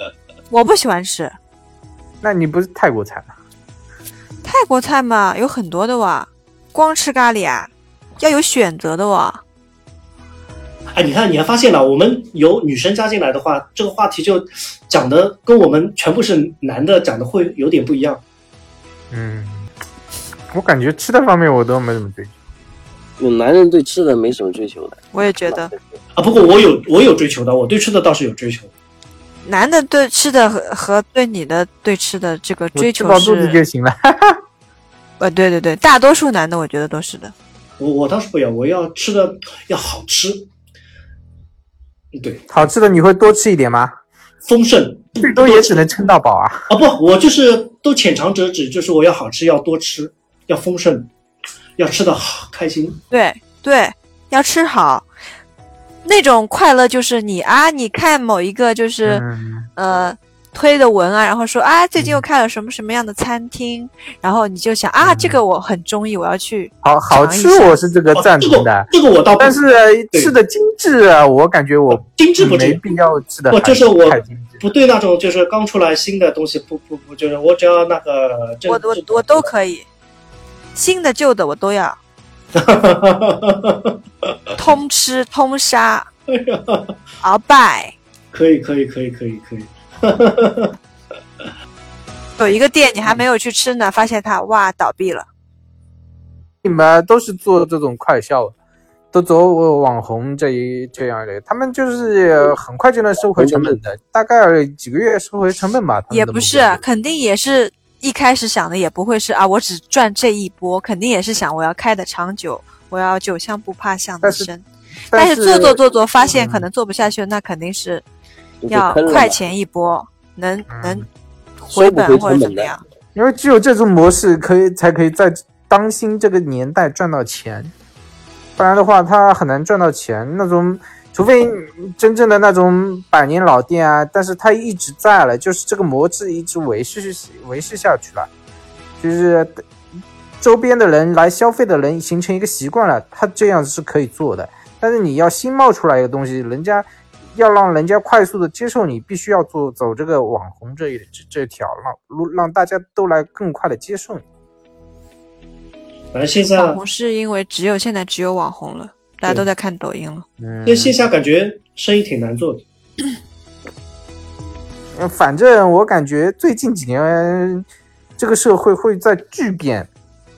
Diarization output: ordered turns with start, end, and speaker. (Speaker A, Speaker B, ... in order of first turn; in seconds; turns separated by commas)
Speaker A: 0.5-1.4, Speaker B: 2.2-3.3, Speaker A: 4.4-9.4, Speaker C: 10.9-18.2, Speaker B: 19.1-19.7, Speaker B: 20.5-22.3, Speaker D: 23.2-25.8, Speaker A: 25.1-25.7, Speaker C: 26.1-28.7, Speaker A: 29.4-33.6, Speaker B: 32.7-34.4, Speaker A: 35.2-37.3, Speaker C: 37.8-40.5, Speaker C: 42.1-42.5, Speaker B: 42.5-43.9, Speaker C: 44.4-45.9, Speaker B: 45.2-46.7, Speaker C: 46.7-51.1, Speaker C: 51.8-53.0, Speaker A: 53.1-55.1, Speaker A: 56.0-59.2, Speaker B: 59.0-59.7, Speaker A: 59.8-67.8, Speaker B: 65.0-65.4, Speaker B: 66.8-74.6, Speaker C: 68.1-69.6, Speaker C: 71.9-72.8, Speaker C: 73.5-79.5, Speaker A: 78.7-79.8, Speaker A: 80.7-82.0, Speaker C: 82.5-84.3, Speaker A: 84.5-86.1, Speaker C: 86.3-86.9, Speaker A: 87.2-87.9, Speaker C: 88.3-90.8, Speaker A: 92.4-95.3, Speaker B: 96.6-98.5, Speaker B: 99.1-106.8, Speaker D: 103.3-103.8, Speaker A: 106.1-118.0, Speaker B: 114.2-114.5, Speaker B: 115.1-115.8, Speaker B: 116.3-116.7, Speaker D: 118.6-119.4, Speaker A: 118.7-121.0, Speaker B: 120.7-121.0, Speaker A: 121.6-122.8, Speaker D: 121.7-122.7, Speaker B: 123.1-127.7, Speaker B: 128.6-138.3, Speaker B: 139.0-139.6, Speaker B: 140.4-154.2, Speaker C: 156.1-156.8, Speaker A: 156.6-160.2, Speaker B: 160.4-160.9, Speaker C: 160.6-162.6, Speaker B: 165.0-167.7, Speaker B: 168.2-169.9